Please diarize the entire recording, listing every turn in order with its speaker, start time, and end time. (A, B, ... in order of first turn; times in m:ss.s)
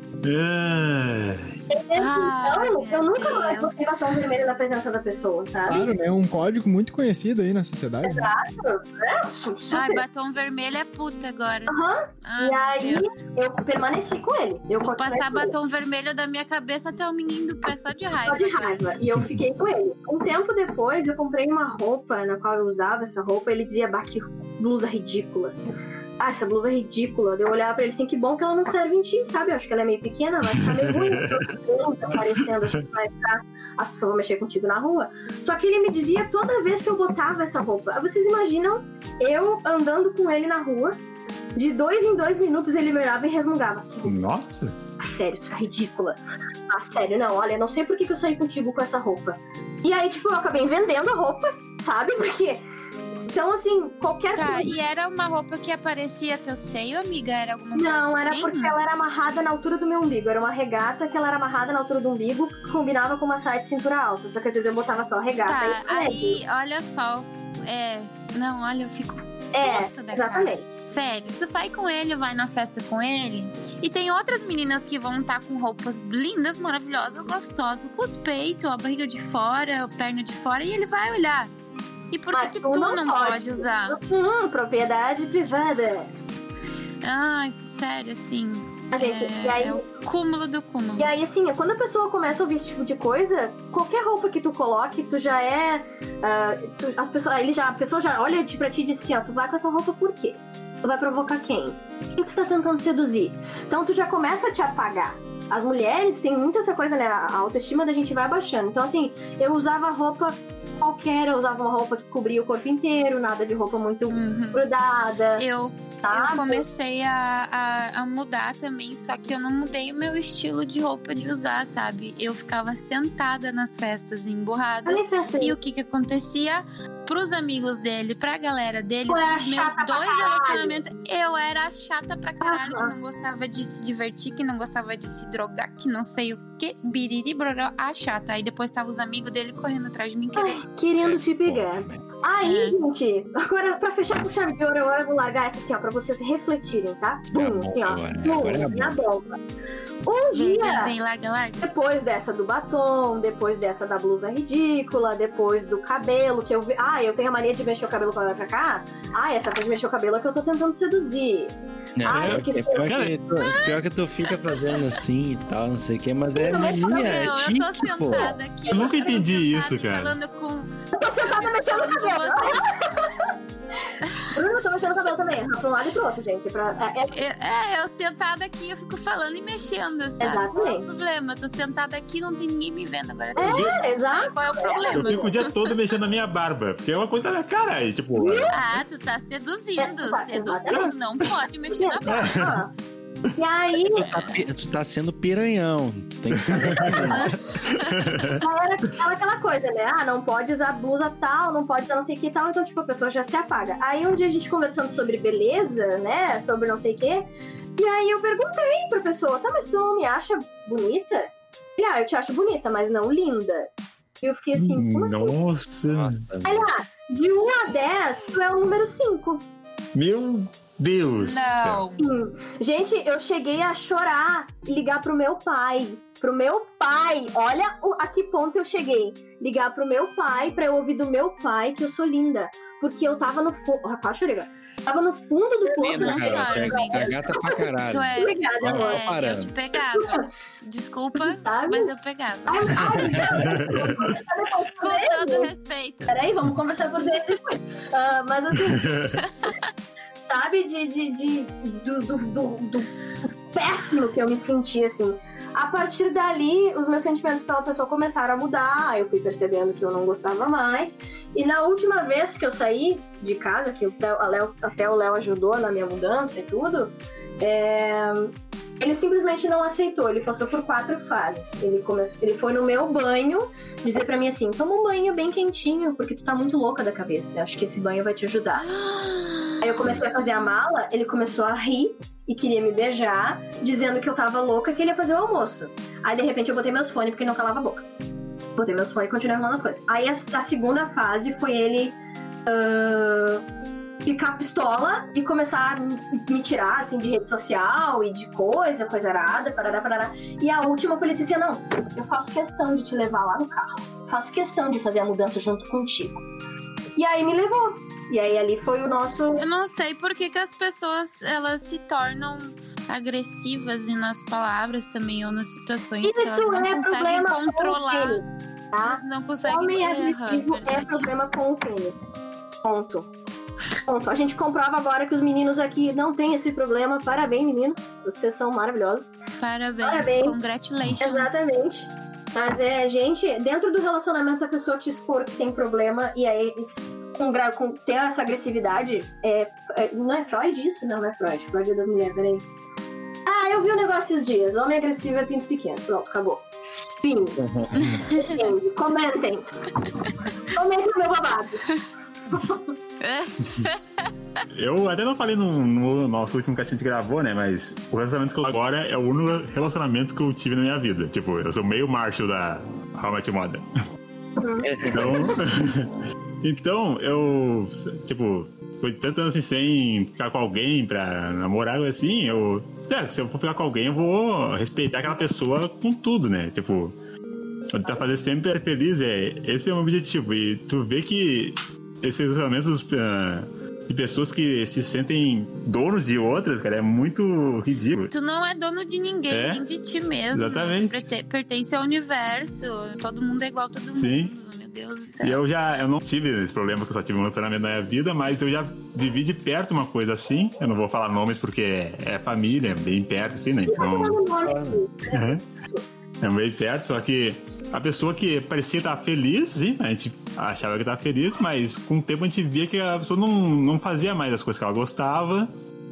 0:00.2-0:01.5 A
0:01.7-0:05.9 B
0:02.0-0:04.0 C
0:05.7-0:08.3 D
0:08.1-0:10.0 B
0:09.7-0:13.2 C
0:11.7-0:15.6 B
0:14.8-0:18.9 C
0:18.3-0:25.6 B
0:26.2-0:41.0 B
0:30.5-0:31.4 A
0:32.1-0:32.5 A
0:41.6-0:44.1 B
0:44.0-0:44.8 A
0:45.0-0:52.6 B
0:53.3-0:54.7 B
0:54.4-0:58.8 C
0:57.8-1:06.4 B
1:05.5-1:21.5 C
1:09.5-1:10.6 B
1:22.1-1:24.0 C
1:22.3-1:26.1 B
1:27.0-1:31.1 C
1:28.9-1:29.8 B
1:31.0-1:55.4 B
1:54.1-1:54.6 C
1:55.4-2:20.6 C
1:56.0-1:56.6 B
2:04.9-2:05.6 B
2:09.1-2:10.8 B
2:12.4-2:12.9 B
2:20.4-2:29.4 B
2:21.0-2:22.1 E
2:22.4-2:22.8 C
2:27.3-2:29.0 E
2:30.1-2:30.9 B
2:30.3-2:31.7 C
2:31.6-2:42.9 B
2:42.0-2:48.4 E
2:42.1-2:43.2 A
2:43.4-2:43.7 C
2:46.4-2:47.2 B
2:46.6-2:50.7 C
2:48.7-2:50.2 A
2:51.0-2:53.3 B
2:51.2-2:52.7 C
2:54.0-2:54.4 C
2:54.3-2:57.2 B
2:57.1-3:05.7 C
3:00.2-3:00.8 B
3:03.4-3:05.4 B
3:03.4-3:03.8 A
3:04.7-3:08.7 A
3:08.2-3:08.5 B
3:08.5-3:12.3 C
3:09.8-3:10.9 B
3:11.7-3:12.7 B
3:12.2-3:12.6 A
3:13.4-3:14.1 B
3:13.9-3:17.4 E
3:14.0-3:14.4 C
3:16.4-3:17.2 A
3:17.1-3:18.4 C
3:18.0-3:18.4 A
3:18.3-3:33.7 B
3:34.2-3:35.4 B
3:34.6-3:36.2 A
3:35.9-3:36.7 E
3:36.4-3:39.4 B
3:40.0-3:41.8 A
3:41.2-3:42.0 C
3:42.0-3:57.6 B
3:55.8-3:59.5 E
3:55.8-4:03.4 C
3:58.2-3:59.0 B
3:59.9-4:00.2 B
4:01.2-4:01.9 B
4:02.5-4:05.5 B
4:03.5-4:03.9 A
4:04.8-4:06.2 C
4:06.1-4:09.2 B
4:09.2-4:09.7 C
4:10.2-4:12.9 B
4:13.5-4:38.7 B
4:38.6-4:40.3 C
4:39.6-4:47.8 B
4:48.6-4:53.4 B
4:54.0-5:06.2 B
5:07.0-5:09.4 B
5:09.4-5:18.2 C
5:16.0-5:23.1 B
5:18.8-5:21.1 C
5:23.9-5:29.1 B
5:29.4-5:31.5 C
5:29.8-5:30.4 B
5:31.0-5:42.4 B
5:43.3-5:46.5 B
5:47.0-5:47.4 B
5:47.4-5:48.0 E
5:47.7-5:48.4 C
5:48.1-5:49.5 B
5:49.8-5:50.2 C
5:50.5-5:51.7 B
5:52.3-5:52.7 B
5:53.0-5:54.4 C
5:54.5-6:03.6 A
6:04.4-6:05.4 B
6:04.6-6:05.3 E
6:04.9-6:05.9 A
6:06.4-6:17.0 A
6:17.7-6:28.1 A
6:28.1-6:35.4 C
6:29.3-6:29.6 A
6:30.3-6:31.1 A
6:34.0-6:34.3 A
6:35.2-6:44.2 A
6:43.7-6:46.0 B
6:44.4-6:44.8 E
6:45.1-6:45.4 A
6:46.2-6:55.5 A